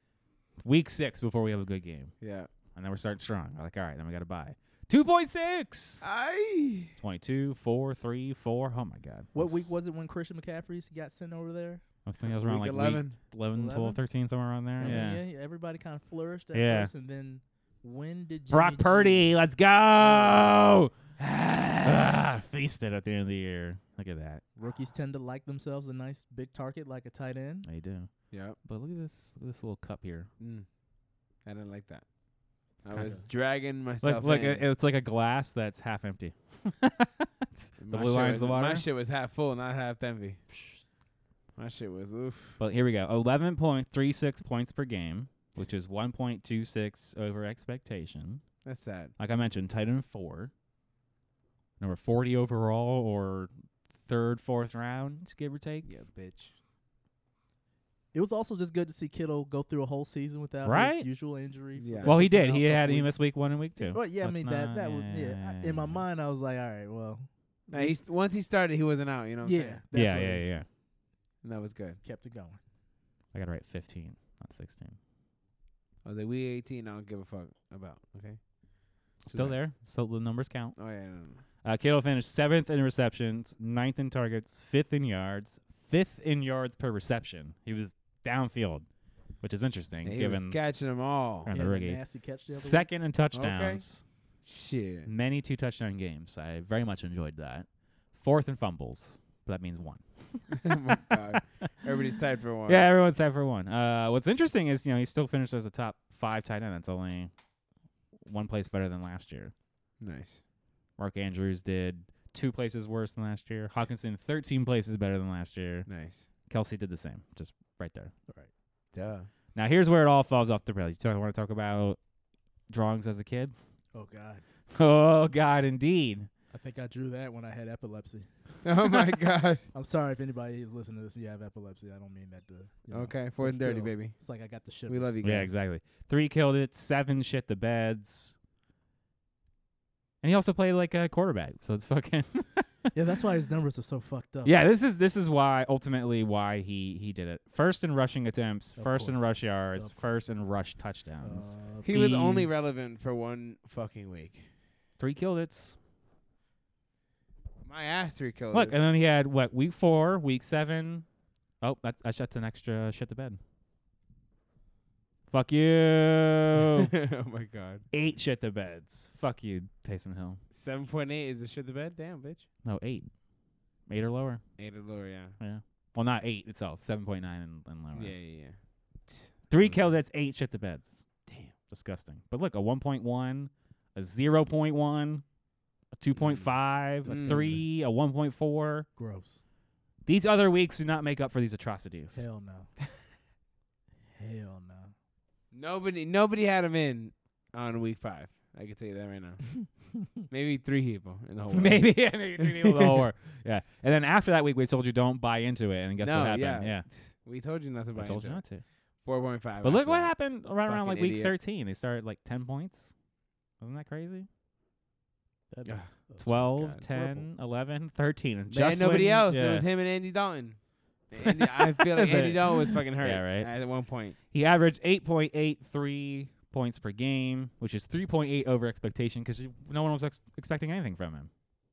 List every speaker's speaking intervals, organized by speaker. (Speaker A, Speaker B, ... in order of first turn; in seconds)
Speaker A: 0.6-2.1, 2.7-6.0, 7.0-9.7, 12.1-15.2, 16.5-16.9, 18.5-20.9, 21.8-24.4, 27.6-30.3, 32.9-33.2, 34.0-38.8, 40.5-40.8, 42.6-48.4, 49.2-50.5, 51.8-56.0, 60.6-61.1, 62.0-66.0, 69.9-70.7, 73.3-75.0, 79.2-80.8, 81.6-88.8, 89.4-90.6, 91.4-94.0, 95.0-101.2, 102.7-107.3, 108.2-109.5, 111.0-115.9, 116.5-118.1, 119.5-122.0, 122.7-123.5, 124.7-126.3, 135.2-138.3, 140.2-142.7, 144.4-152.7, 155.0-155.8, 158.5-161.1, 161.6-163.4, 165.3-166.9, 167.9-170.4, 172.6-173.1, 173.9-174.4, 175.4-178.2, 179.5-181.0, 181.7-185.2, 186.0-188.9, 190.1-192.2, 201.5-206.9, 207.9-208.7, 209.6-212.9, 213.6-214.3, 216.2-219.6, 221.2-223.6, 224.3-231.3
Speaker B: 2.2-2.5, 6.0-6.9, 12.2-13.2, 14.8-15.1, 28.3-28.6, 30.4-30.7, 31.4-32.0, 32.8-34.6, 37.8-40.4, 41.5-42.6, 48.6-49.1, 55.8-56.5, 61.8-62.3, 67.7-69.8, 71.4-72.0, 76.0-78.6, 79.2-79.6, 80.8-81.4, 90.0-91.5, 93.3-93.8, 94.4-95.1, 100.5-102.8, 110.0-110.4, 115.9-116.3, 118.9-119.3, 128.6-129.7, 132.9-134.2, 134.9-135.6, 151.8-154.5, 157.6-158.9, 166.8-167.8, 170.5-172.5, 174.6-175.4, 177.9-179.9, 181.2-181.5, 186.1-187.6, 195.5-203.0, 206.0-211.3, 215.6-217.2, 218.5-224.2
Speaker C: 9.3-11.8, 13.5-14.0, 14.8-19.2, 24.6-27.7, 58.1-68.0, 69.4-70.5, 72.0-72.6, 91.5-92.9, 123.9-124.4, 126.5-128.7, 129.7-135.3, 142.9-144.5, 148.8-150.0, 151.2-152.0, 187.0-187.7, 188.9-189.4, 192.1-192.7, 194.1-194.9, 215.5-217.2